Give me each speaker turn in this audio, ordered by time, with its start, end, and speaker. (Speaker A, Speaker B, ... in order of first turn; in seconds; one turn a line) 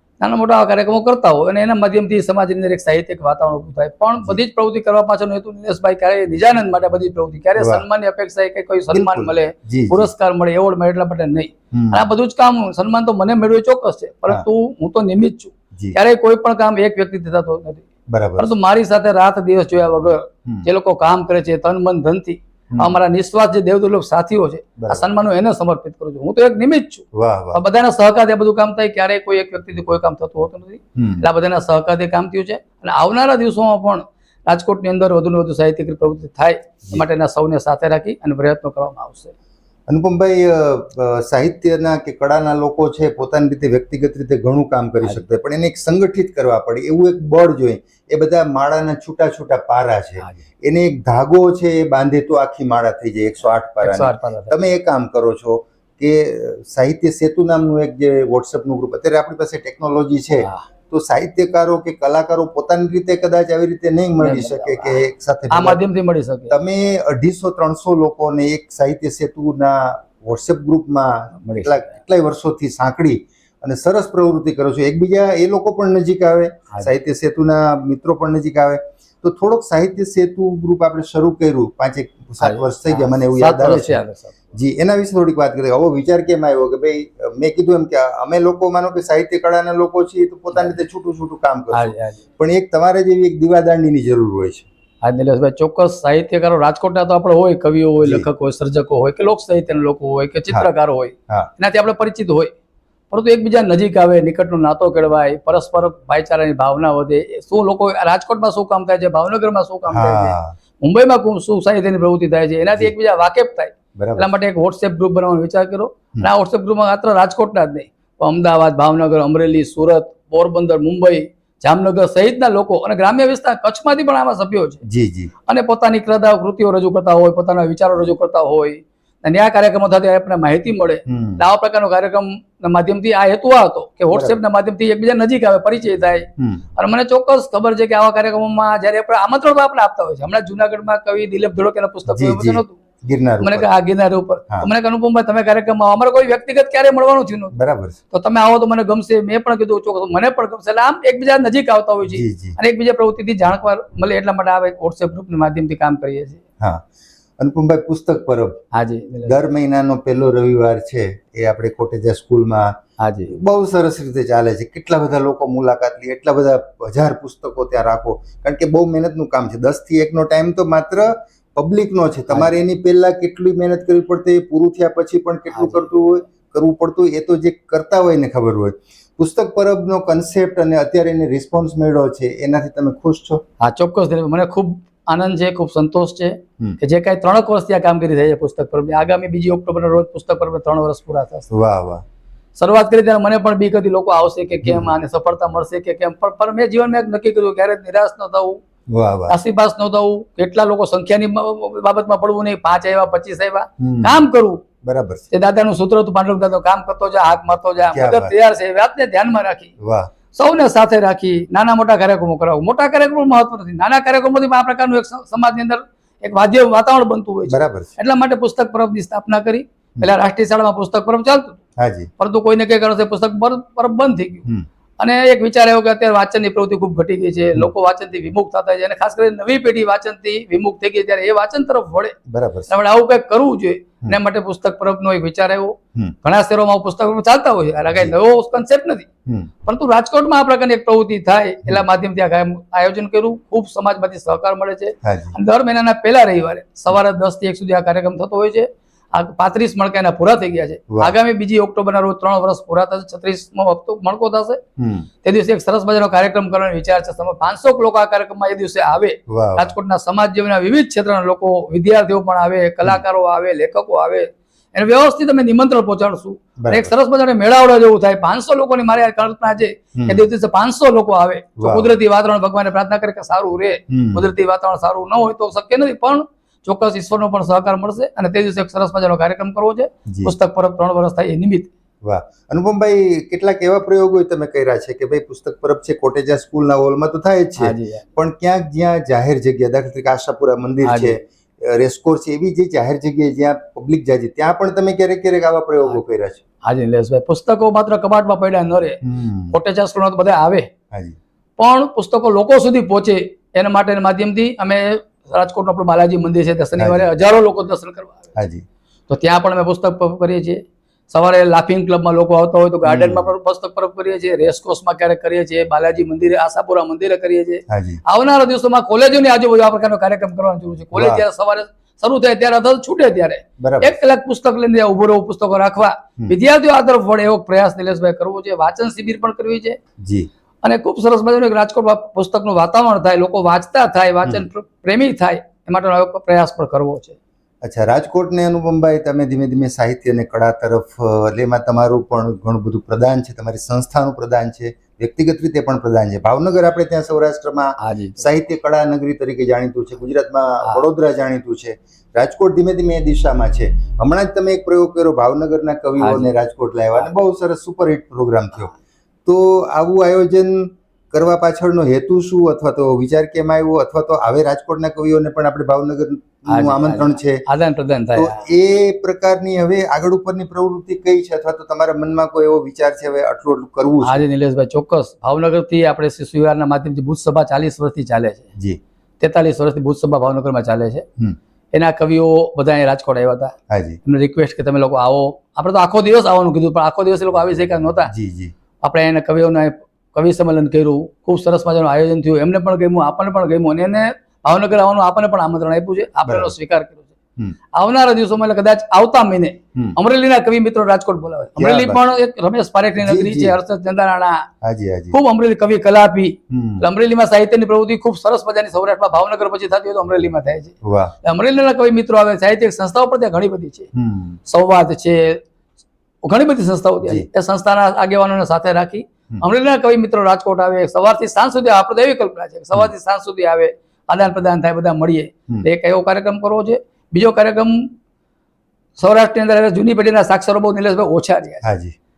Speaker A: 0.2-17.8
Speaker B: 7.6-7.8
Speaker B: 8.9-10.1
Speaker B: 11.7-12.1
Speaker B: 18.1-18.5
Speaker A: 18.4-39.3
Speaker B: 24.8-25.1
Speaker B: 27.1-27.6
Speaker B: 31.0-31.2
Speaker B: 39.9-65.8
Speaker A: 53.8-54.5
Speaker A: 60.4-60.6
Speaker A: 64.2-66.5
Speaker B: 66.5-94.7
Speaker A: 71.4-71.8
Speaker A: 82.4-84.5
Speaker A: 91.7-92.2
Speaker A: 95.0-102.5
Speaker A: 103.1-124.8
Speaker B: 109.9-110.5
Speaker B: 114.0-114.3
Speaker B: 124.8-125.3
Speaker A: 125.5-142.8
Speaker B: 131.1-131.4
Speaker B: 134.1-134.4
Speaker B: 136.4-136.6
Speaker B: 142.1-143.7
Speaker A: 143.4-147.6
Speaker B: 147.5-147.9
Speaker A: 148.1-156.4
Speaker B: 152.1-152.6
Speaker B: 157.4-158.6
Speaker A: 158.7-159.4
Speaker B: 159.2-162.8
Speaker A: 163.0-163.3
Speaker B: 163.3-183.4
Speaker A: 172.3-172.5
Speaker A: 175.5-175.8
Speaker A: 183.6-191.5
Speaker B: 191.5-192.0
Speaker A: 192.6-198.6
Speaker B: 194.6-194.9
Speaker B: 198.9-199.3
Speaker A: 199.3-204.6
Speaker B: 203.8-204.2
Speaker B: 204.8-205.2
Speaker A: 205.3-209.7
Speaker B: 207.9-208.3
Speaker B: 209.8-210.1
Speaker A: 210.3-221.6
Speaker B: 217.5-217.9
Speaker B: 221.8-222.1
Speaker A: 222.2-224.5
Speaker A: 225.0-232.2
Speaker B: 232.3-232.7
Speaker A: 232.7-239.1
Speaker A: 239.7-254.6
Speaker B: 245.0-245.4
Speaker B: 254.8-255.1
Speaker A: 255.2-281.7
Speaker B: 259.3-259.8
Speaker B: 266.6-266.9
Speaker B: 269.9-270.2
Speaker B: 271.6-271.9
Speaker B: 273.9-274.3
Speaker B: 280.1-280.3
Speaker B: 282.0-296.4
Speaker A: 287.6-288.0
Speaker A: 290.8-291.1
Speaker A: 296.6-300.7
Speaker B: 299.0-299.6
Speaker B: 300.9-301.2
Speaker A: 301.6-308.4
Speaker B: 306.8-307.1
Speaker B: 308.4-308.6
Speaker A: 309.1-329.8
Speaker B: 312.8-313.3
Speaker B: 317.7-318.0
Speaker B: 320.9-321.2
Speaker B: 323.6-324.0
Speaker B: 330.0-330.3
Speaker A: 330.6-337.2
Speaker B: 337.6-358.7
Speaker A: 347.8-348.2
Speaker A: 356.0-356.3
Speaker B: 359.2-367.4
Speaker A: 366.5-368.4
Speaker B: 368.1-374.2
Speaker A: 374.0-378.5
Speaker A: 379.2-381.1
Speaker A: 381.7-383.5
Speaker B: 383.7-384.0
Speaker A: 384.0-388.1
Speaker B: 388.1-388.5
Speaker A: 388.8-397.1
Speaker B: 396.2-396.5
Speaker A: 397.7-404.5
Speaker B: 401.6-402.0
Speaker B: 403.0-403.6
Speaker B: 404.6-405.2
Speaker A: 405.1-413.9
Speaker B: 406.5-406.9
Speaker B: 410.8-411.1
Speaker B: 413.9-414.4
Speaker A: 414.5-415.4
Speaker A: 416.2-427.9
Speaker A: 429.0-431.6
Speaker B: 431.6-431.9